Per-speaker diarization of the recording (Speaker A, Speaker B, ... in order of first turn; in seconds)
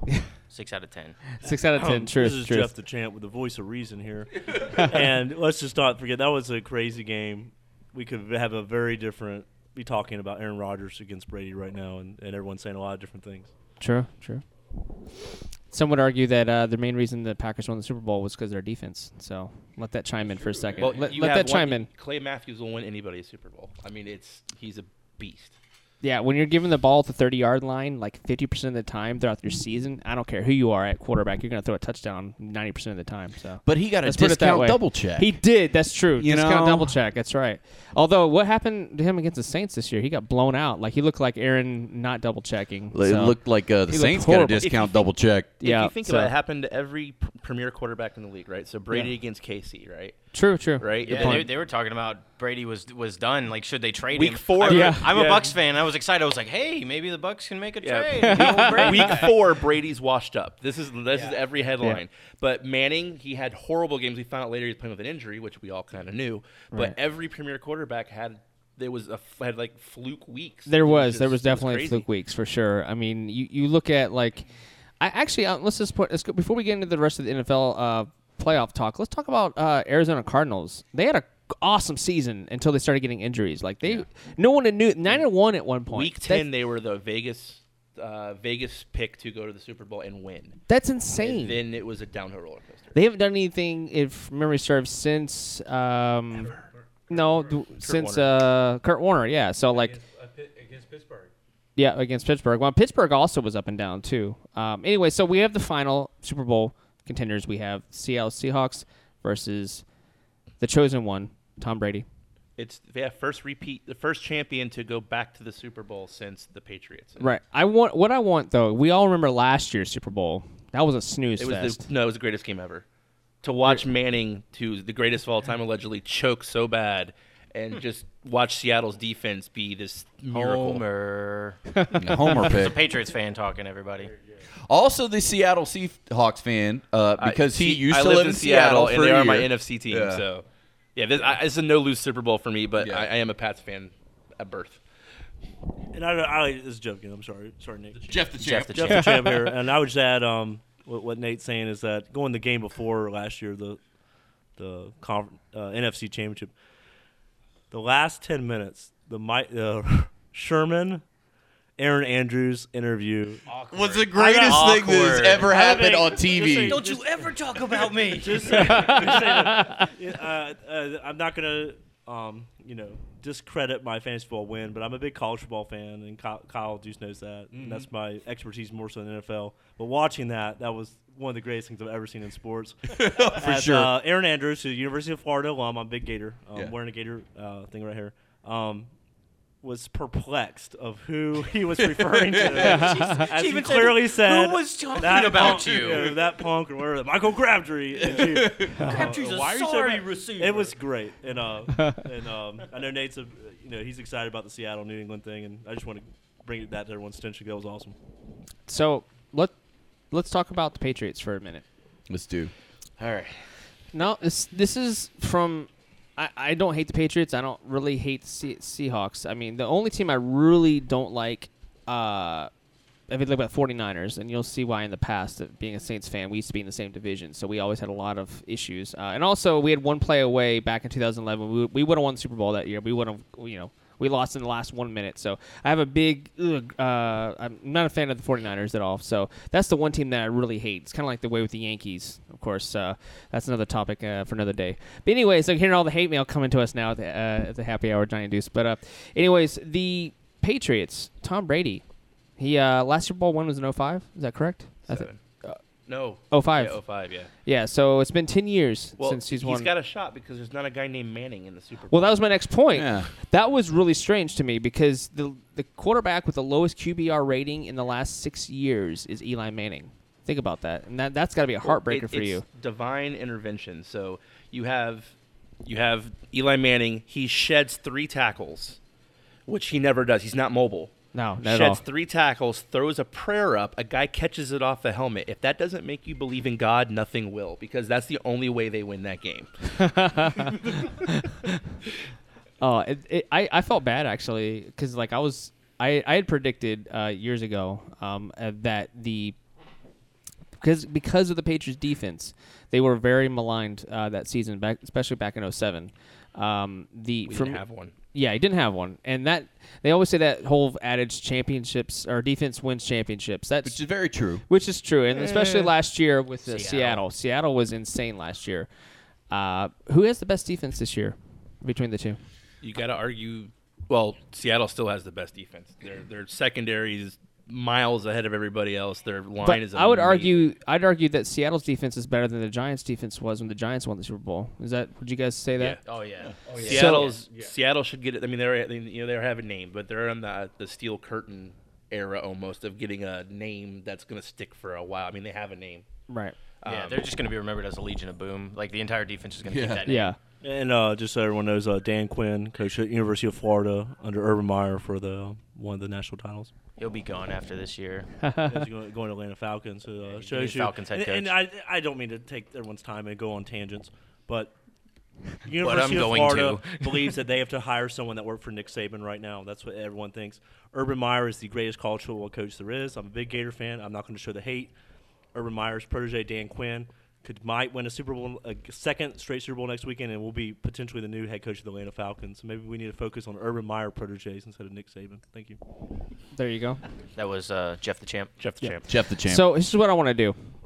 Speaker A: 0.5-1.2, 51.0-59.4, 61.1-61.4, 130.3-134.1, 148.4-149.3, 163.5-165.5, 166.7-168.8, 192.6-196.2, 198.9-200.6, 316.4-317.0, 335.8-337.2, 346.6-350.1, 356.8-358.1, 360.0-361.3, 365.6-367.1, 387.1-388.4
Speaker B: 1.4-2.7, 13.8-14.4, 15.7-21.9, 26.0-44.7, 45.6-46.3, 50.3-51.5, 54.6-55.1, 58.2-59.1, 70.7-74.5, 75.0-86.5, 90.7-91.6, 92.9-96.6, 97.1-100.0, 101.8-109.8, 110.6-112.0, 117.2-121.8, 168.6-169.8, 192.6-193.2, 208.7-209.5, 210.1-211.6, 213.9-222.5, 223.1-251.8, 252.4-255.6, 256.3-256.8, 257.4-259.7, 261.9-272.4, 281.1-281.8, 289.8-291.5, 292.6-299.4, 300.6-313.8, 314.5-318.7, 319.3-322.2, 329.4-335.8, 336.6-337.1, 346.1-346.3, 349.9-350.2, 358.2-358.5, 386.3-386.8, 388.6-390.4
Speaker C: 1.7-13.5, 145.9-153.8, 154.6-156.5, 157.7-161.0, 161.8-163.4, 164.2-188.9, 189.6-207.9, 350.4-356.5, 358.4-364.5, 365.4-374.7, 375.3-385.6
Speaker D: 20.8-25.6, 44.6-50.2, 50.8-51.5, 54.1-55.5, 57.8-72.1, 85.9-90.6, 91.2-93.0, 97.1-98.3, 112.6-117.3, 121.4-122.8, 123.4-130.8, 137.2-140.4, 140.9-144.8, 213.0-213.3, 254.9-255.2, 255.9-257.3, 259.0-262.2, 271.6-275.1, 275.6-278.8, 279.5-289.5, 307.2-307.9, 315.2-315.7, 322.6-330.5, 336.5-345.9, 346.6-347.1, 388.4-388.9
Speaker E: 33.6-35.3, 36.2-37.0, 42.9-45.5, 131.9-132.8, 134.7-140.2, 142.8-143.1, 147.9-149.2, 163.7-166.8, 182.9-183.9, 191.8-192.8, 198.0-198.9, 212.1-212.5, 262.7-263.1, 313.6-314.4, 349.5-349.8, 388.9-389.5